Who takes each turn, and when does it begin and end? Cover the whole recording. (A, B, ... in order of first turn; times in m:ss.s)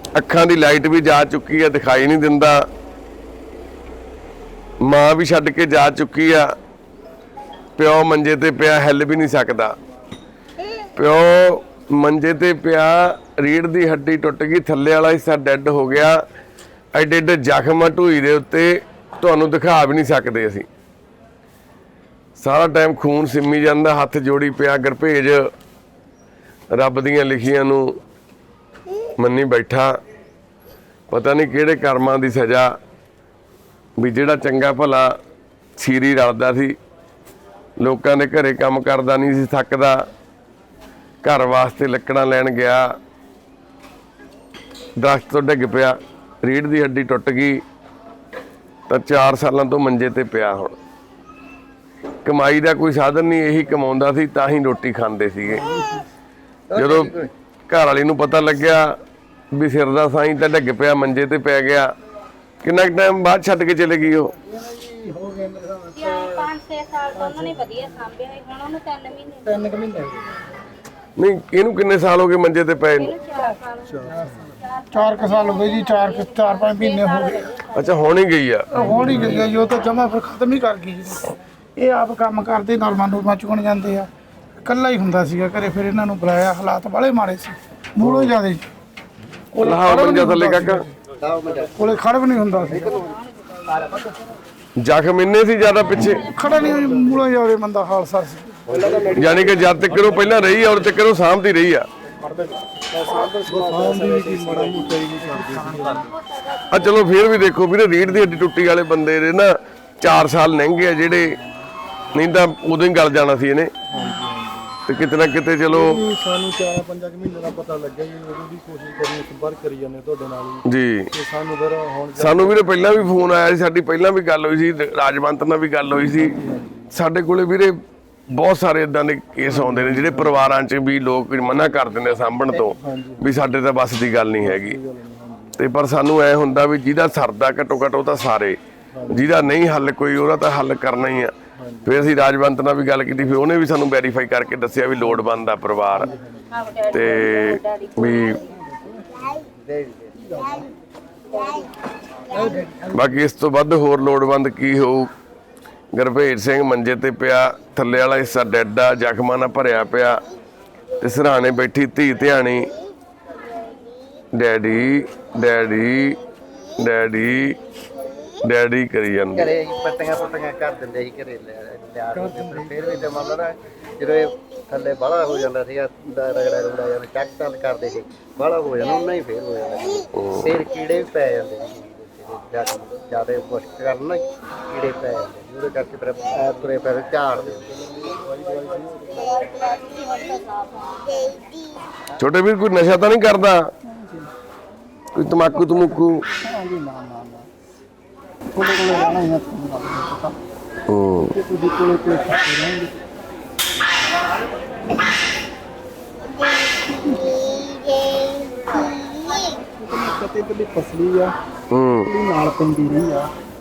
0:00.2-0:02.6 A
0:04.8-0:06.5 A
0:07.8-0:09.7 A
0:11.0-0:16.2 A
0:16.9-0:20.7 A
0:22.4-0:25.5 A
0:26.7-0:28.0 A
0:29.2-0:30.0 A
0:31.1-0:32.7 A
0:34.0-0:35.2 A
0:35.8-0:36.8 A
0:37.8-0:40.0 A
0:41.2-0:43.0 A
0:45.0-0:47.6 A
0:48.9-0:50.8 A
0:52.2-0:55.7 A
0:56.7-0:57.3 B
0:56.7-0:59.0 A
0:59.5-1:01.9 A
1:02.6-1:04.3 A
1:05.9-1:09.9 C
1:11.2-1:13.1 A
1:13.0-1:14.2 C
1:14.9-1:17.5 D
1:15.0-1:17.9 C
1:17.7-1:18.7 A
1:18.7-1:24.1 D
1:18.9-1:19.5 E
1:24.6-1:28.6 D
1:28.0-1:28.4 A
1:29.5-1:30.9 D
1:29.6-1:30.9 A
1:31.2-1:31.9 B
1:31.8-1:33.0 D
1:32.7-1:33.0 B
1:34.8-1:36.2 A
1:36.2-1:38.6 D
1:38.8-1:39.4 B
1:39.1-1:41.9 A
1:43.5-1:46.1 E
1:46.7-1:51.3 A
1:52.1-1:53.7 A
1:53.9-1:54.8 E
1:54.9-1:56.0 A
1:55.7-2:03.2 E
2:00.7-2:01.1 A
2:02.2-2:06.4 A
2:06.1-2:06.9 E
2:06.9-2:07.7 A
2:08.3-2:14.8 A
2:09.5-2:10.4 E
2:12.6-2:13.4 E
2:14.4-2:15.6 E
2:15.6-2:18.6 A
2:18.9-2:19.4 E
2:19.1-2:26.1 A
2:21.6-2:22.1 E
2:26.0-2:26.9 E
2:26.6-2:28.4 C
2:26.9-2:28.4 A
2:29.5-2:30.3 B
2:32.9-2:35.1 A
2:35.9-2:40.2 A
2:41.0-2:42.7 A
2:44.3-2:46.2 A
2:46.8-2:47.6 A
2:48.4-2:49.6 A
2:49.3-3:08.1 B
3:00.2-3:00.5 A
3:08.0-3:09.3 E
3:12.2-3:13.7 A
3:13.9-3:14.3 F
3:15.2-3:16.2 A
3:15.7-3:17.5 F
3:18.5-3:20.4 F
3:20.9-3:21.4 A
3:21.3-3:22.9 F
3:26.9-3:28.1 F
3:28.8-3:31.3 F
3:31.7-3:32.1 A
3:32.1-3:33.3 F